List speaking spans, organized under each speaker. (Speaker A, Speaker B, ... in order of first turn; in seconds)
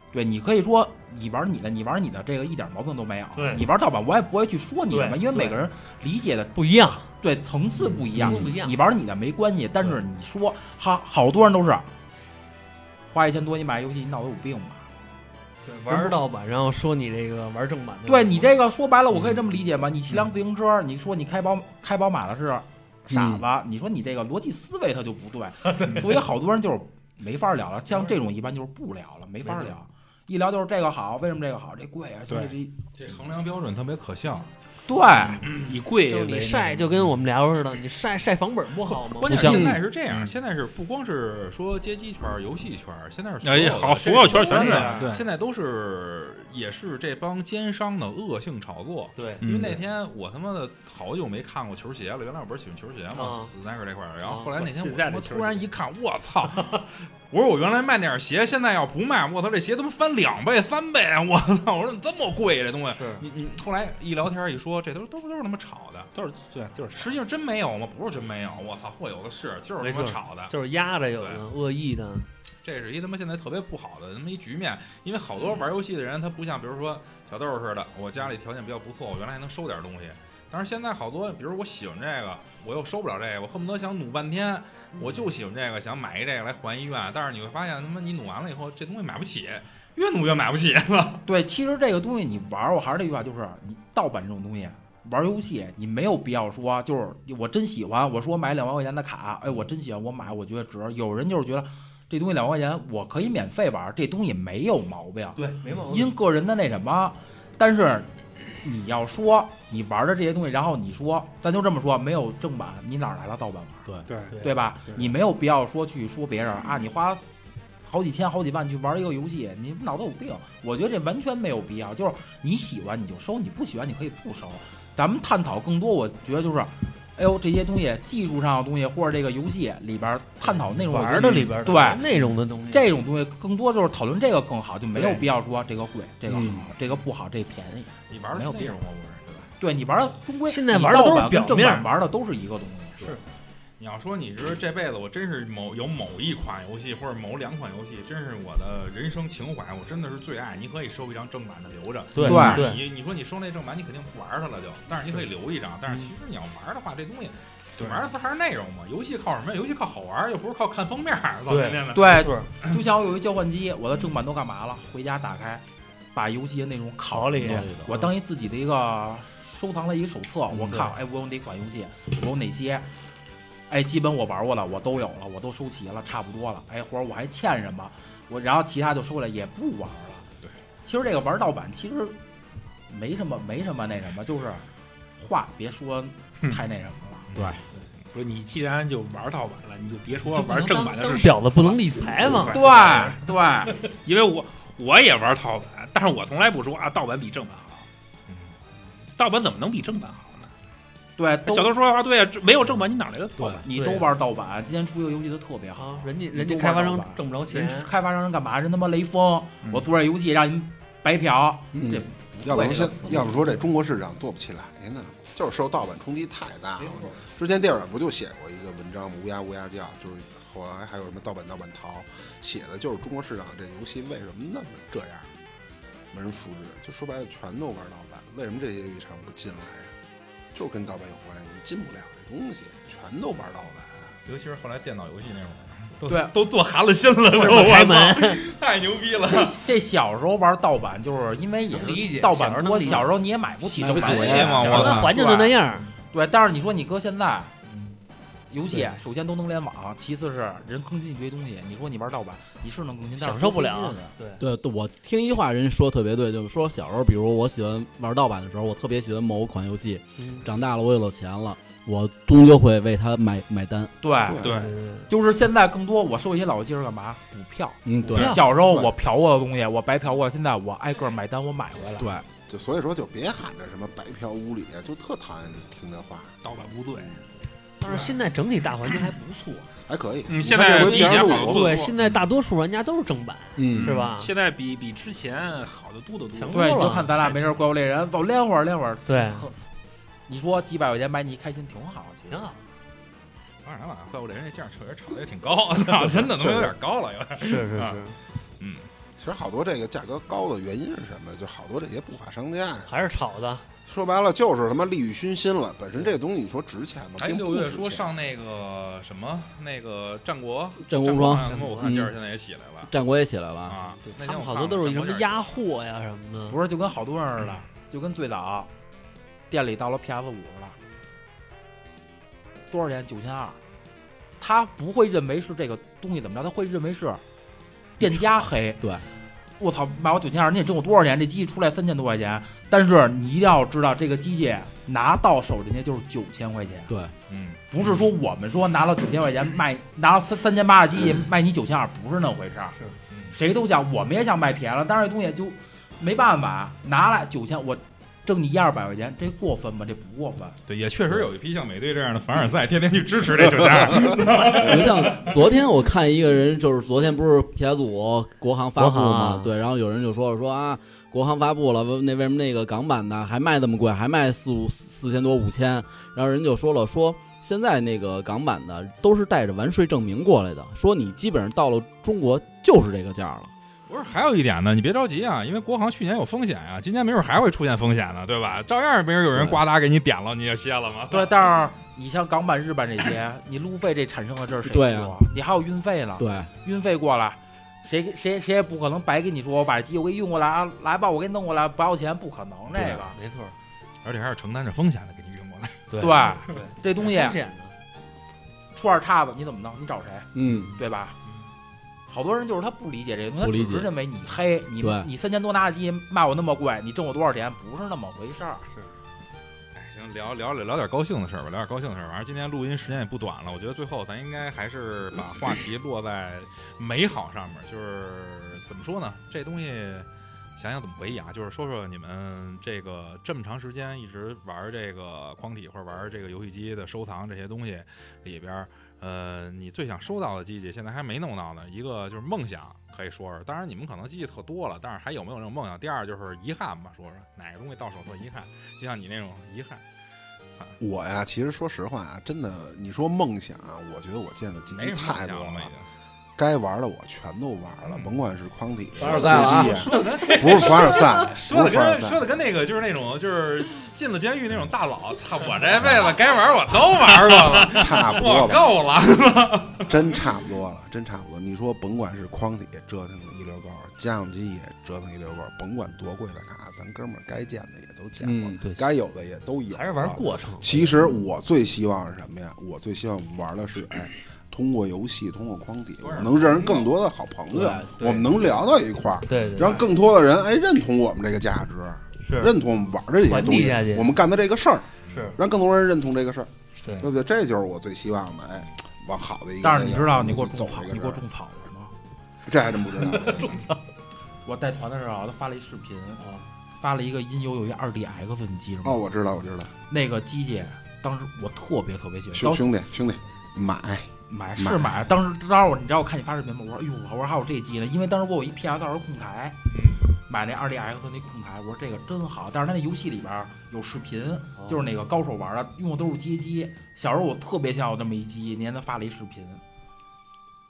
Speaker A: 0.1-6.5, 7.2-11.9, 13.1-14.8, 15.9-16.1, 18.1-32.7, 34.9-35.5, 44.4-45.0, 91.2-108.1, 108.6-113.9, 114.4-117.2, 117.8-132.1, 132.7-138.8, 139.6-143.2, 152.2-152.7, 161.9-172.9, 173.7-180.3, 180.8-182.2, 182.9-184.6, 185.2-187.3, 192.5-193.8, 201.2-201.7, 203.6-213.3, 236.1-236.3, 239.3-245.6, 246.1-247.5, 248.5-254.1, 264.0-272.1, 286.5-289.7, 290.3-292.5, 316.5-318.7, 319.5-320.8, 322.7-323.6, 324.4-327.2, 328.0-328.8, 329.6-336.9, 337.7-342.8, 343.3-350.6, 381.1-393.2, 396.0-397.4, 398.7-401.1, 402.1-408.7, 489.6-491.9, 494.4-496.2, 496.8-499.0, 499.9-502.7, 504.3-509.6, 510.3-519.6
Speaker B: 3.4-3.6, 4.9-5.7, 6.5-7.1, 8.1-8.8, 15.6-18.5, 25.7-26.1, 29.4-29.7, 36.0-39.8, 44.3-45.0, 49.2-49.4, 53.1-53.5, 54.2-54.7, 62.9-63.3, 69.8-72.3, 84.9-85.3, 105.5-106.1, 130.5-132.9, 134.9-135.2, 140.4-141.9, 152.1-152.8, 161.5-162.5, 167.1-168.1, 170.5-170.9, 190.3-193.1, 203.7-204.1, 205.7-207.9, 216.8-217.2, 237.3-238.4, 241.7-243.1, 244.0-245.9, 253.2-254.4, 260.2-260.5, 264.4-265.1, 268.1-268.4, 277.8-279.7, 280.5-284.3, 286.3-287.1, 289.1-289.5, 292.3-292.6, 297.4-298.2, 302.9-303.6, 311.4-312.0, 314.0-316.6, 358.8-359.5, 393.1-393.6, 395.9-397.7, 450.0-451.1, 469.7-471.2, 478.0-478.2, 479.3-479.9, 482.2-482.6, 483.2-484.1, 485.1-485.4, 486.8-487.1, 492.9-493.8, 496.2-496.5, 514.6-514.8
Speaker C: 8.2-8.5, 23.1-23.4, 39.3-39.8, 136.3-136.7, 167.5-167.7, 187.3-187.6, 203.4-203.6, 211.7-212.1, 243.7-245.1, 254.4-263.9, 267.9-268.4, 272.0-272.3, 283.6-284.1, 310.8-312.1, 312.9-313.8, 328.0-328.2, 328.8-329.1, 336.9-337.1, 354.4-373.5, 379.3-379.6, 384.6-385.2, 386.2-386.5, 392.7-393.0, 400.4-400.7, 403.4-403.9, 404.8-405.1, 449.0-449.9, 468.2-468.6, 477.5-478.0
Speaker D: 32.9-34.5, 35.4-35.7, 38.9-66.1, 66.9-70.5, 71.1-71.4, 72.6-91.2, 138.1-139.5, 143.8-162.1, 187.3-187.6, 198.3-198.5, 234.3-239.6, 244.0-245.2, 293.6-298.9, 307.2-312.9, 313.7-315.6, 337.3-337.6, 343.1-343.4, 350.7-355.4, 373.9-381.5, 394.0-396.2, 409.7-439.8, 444.7-445.9, 447.8-448.2, 449.0-460.1, 476.0-476.9, 485.1-485.3, 493.2-493.6, 509.7-510.1
Speaker E: 35.4-36.9, 39.3-39.6, 43.4-45.3, 49.4-49.8, 54.6-55.6, 66.1-67.1, 105.4-105.7, 114.1-114.4, 187.7-197.8, 199.2-200.5, 201.4-203.6, 264.4-264.7, 276.4-277.2, 280.3-281.9, 283.7-287.5
Speaker F: 212.4-225.3, 226.1-229.9, 230.5-234.1, 264.3-264.5, 272.4-276.4, 279.9-281.9, 299.2-303.2, 303.9-308.1, 440.8-445.7, 446.4-452.2, 455.8-456.1, 457.7-458.7, 459.8-491.2, 492.4-493.6, 498.8-499.7, 502.3-504.9